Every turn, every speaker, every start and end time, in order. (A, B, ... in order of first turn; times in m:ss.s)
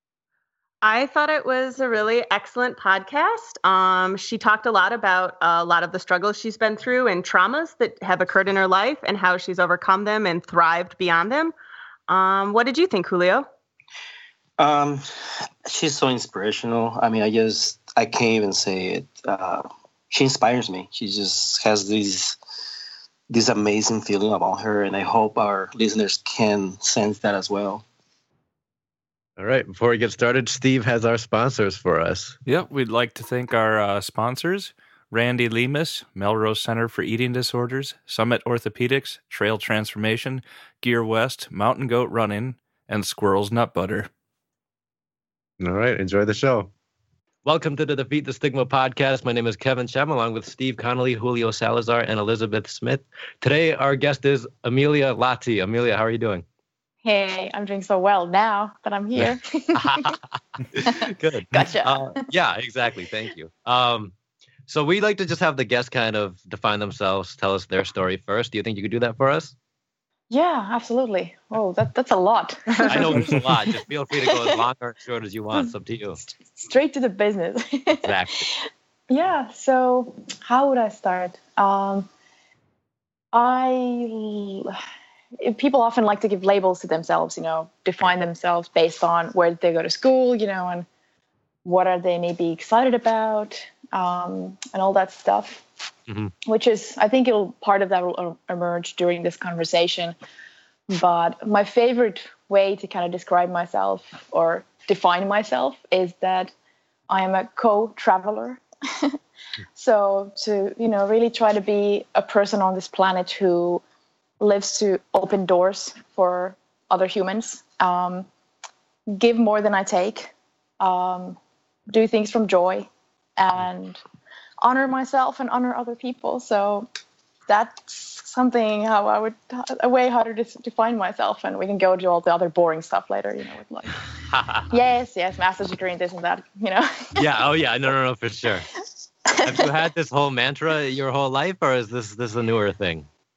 0:00.8-0:11.5 A
0:12.1-0:13.4 A
0:14.6-0:15.0 B
0:15.6-0:22.4 B
0:23.3-0:27.8 B
0:29.4-0:32.4 C
0:32.4-0:44.1 D
0:45.6-0:46.7 C
0:47.4-0:56.4 C
0:57.0-1:00.2 E
0:59.2-1:00.2 C
1:00.7-1:04.1 C
1:00.8-1:02.0 E
1:04.7-1:09.5 C
1:10.3-1:13.4 E
1:12.8-1:16.2 C
1:14.1-1:14.6 E
1:16.2-1:18.2 E
1:17.9-1:18.5 C
1:19.1-1:22.1 E
1:23.3-1:24.8 E
1:25.4-1:30.9 E
1:31.6-1:35.6 E
1:36.1-1:36.3 C
1:36.4-1:40.1 E
1:40.9-1:46.5 E
1:47.1-1:49.2 E
1:49.7-1:53.8 E
1:54.4-1:58.3 E
1:59.1-2:01.4 E
2:01.9-2:04.0 E
2:04.6-2:06.9 E
2:07.5-2:14.0 E
2:14.3-2:14.7 C
2:14.7-2:17.2 E
2:17.2-2:18.7 C
2:19.2-2:19.7 E
2:19.4-2:23.1 C